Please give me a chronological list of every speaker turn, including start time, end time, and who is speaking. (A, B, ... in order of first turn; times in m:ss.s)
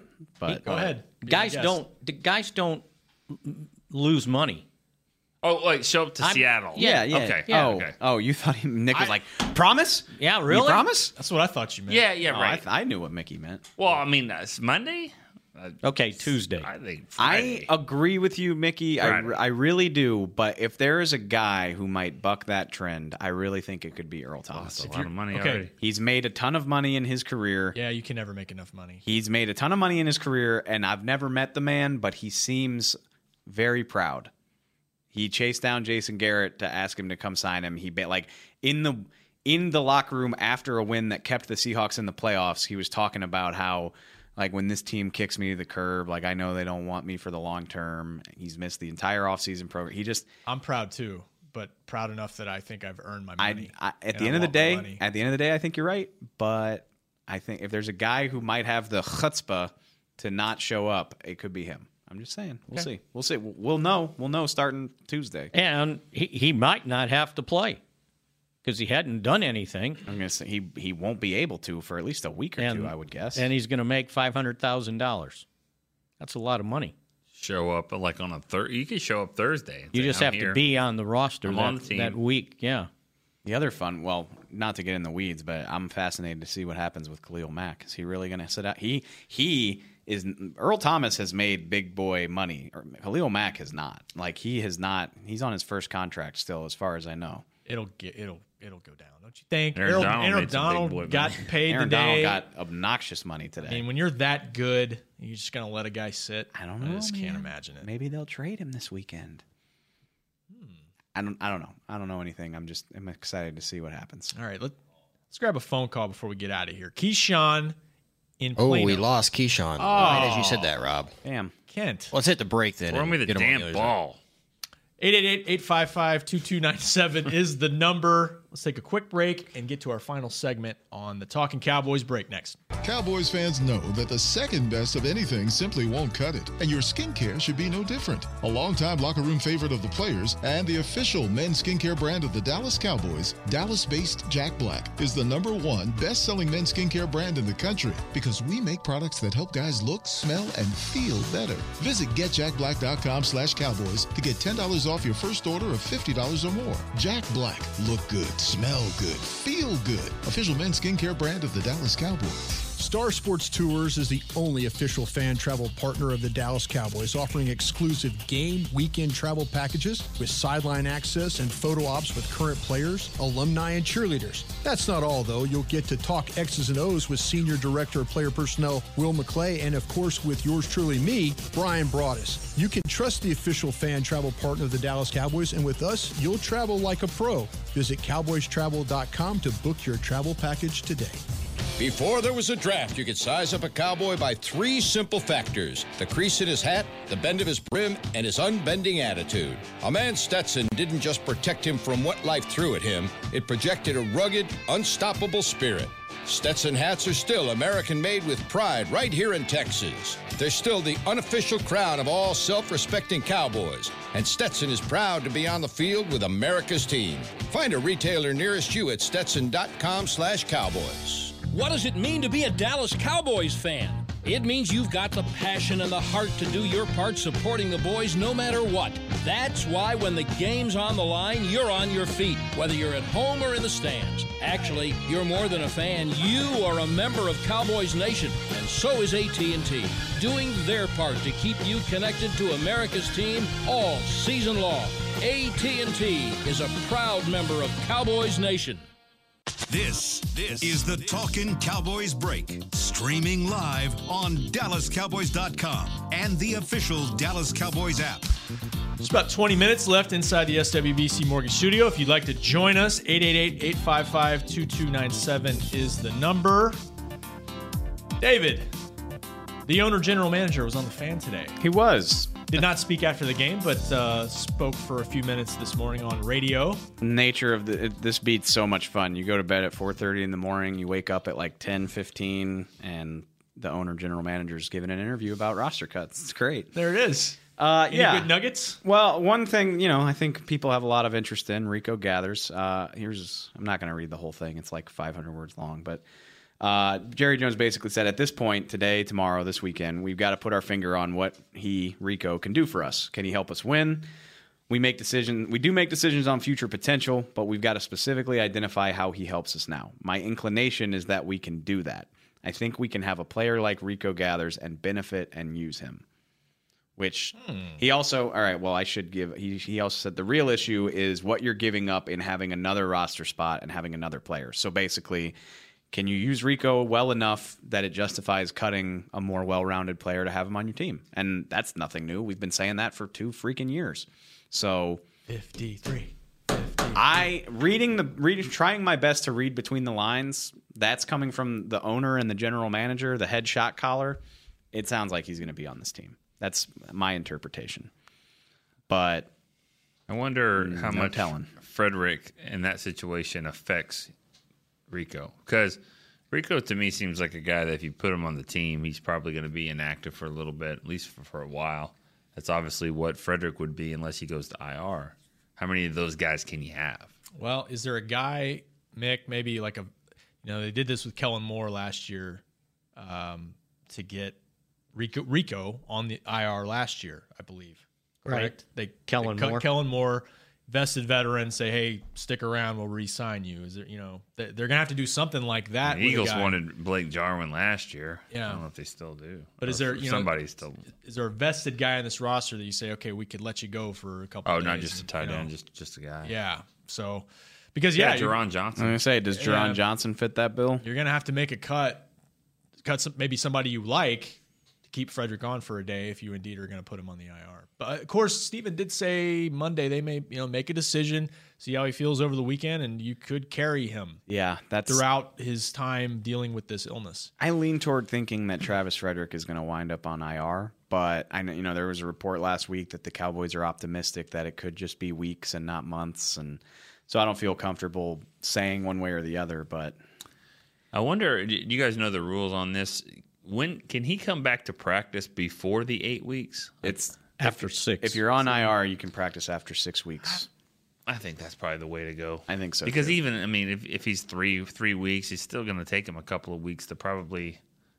0:00.4-0:00.8 A
0:00.6-0:01.8 B
0:01.2-0:04.6 C
0:05.4-0:08.0 D
0:06.2-0:07.8 C
0:06.8-0:11.1 A
0:10.2-0:10.9 C
0:11.2-0:12.0 B
0:11.9-0:12.6 D
0:12.3-0:13.7 A
0:13.8-0:17.7 D
0:15.8-0:16.7 C
0:17.2-0:24.9 A
0:19.0-0:19.3 D
0:24.5-0:25.7 D
0:24.9-0:25.7 B
0:25.8-0:27.8 A
0:27.7-0:29.0 B
0:29.0-0:34.3 A
0:35.1-0:50.3 A
0:50.5-0:55.0 B
0:53.4-1:05.5 A
1:05.5-1:07.8 C
1:08.6-1:10.0 C
1:10.1-1:13.5 A
1:12.6-1:15.4 C
1:16.2-1:17.0 C
1:17.3-1:20.6 D
1:19.9-1:22.9 C
1:21.4-1:22.2 D
1:23.4-1:37.4 A
1:37.7-1:42.4 B
1:39.8-1:41.4 D
1:41.7-1:43.8 A
1:43.7-1:47.9 B
1:46.5-1:49.4 A
1:50.5-1:50.8 B
1:51.2-1:54.3 A
1:54.3-1:54.8 B
1:55.3-1:57.8 B
1:58.4-1:59.1 B
1:58.6-2:01.1 E
1:59.8-2:00.7 B
2:01.2-2:01.5 A
2:01.7-2:02.1 B
2:02.1-2:03.9 E
2:02.9-2:04.2 D
2:05.0-2:12.6 B
2:12.8-2:42.7 F
2:42.7-3:11.2 G
3:11.8-3:41.4 H
3:41.4-4:08.9 I
4:09.7-4:18.3 J
4:19.0-4:26.8 B
4:28.2-4:28.7 B
4:29.7-4:31.6 B
4:31.6-4:32.5 A
4:32.5-4:36.8 B
4:37.0-4:46.7 A
4:46.7-4:48.8 B
4:47.6-4:56.0 A
4:56.6-5:04.1 A
5:04.7-5:16.0 A
5:17.0-5:25.4 A
5:17.4-5:17.8 B
5:25.9-5:35.0 A
5:35.3-5:37.3 B
5:37.0-5:44.2 A
5:44.7-5:47.9 A
5:48.9-5:49.3 A
5:50.1-5:54.1 D
5:50.6-5:51.5 A
5:54.9-5:55.8 D
5:56.3-6:07.1 D
6:07.4-6:09.9 B
6:10.4-6:12.4 B
6:13.0-6:14.4 B
6:14.9-6:26.6 B
6:18.2-6:19.7 C
6:25.8-6:30.8 D
6:28.3-6:28.6 B
6:29.6-6:30.3 B
6:31.0-6:35.5 B
6:34.5-6:36.3 D
6:36.2-6:38.4 B
6:38.0-6:39.0 D
6:38.8-6:40.8 A
6:39.3-6:39.8 B
6:40.8-6:42.1 B
6:42.8-6:54.2 B
6:54.3-6:55.0 A
6:54.9-6:57.3 B
6:57.4-7:10.0 A
7:10.9-7:16.9 D
7:16.8-7:20.5 A
7:17.4-7:18.7 C
7:21.1-7:27.6 D
7:22.5-7:23.2 A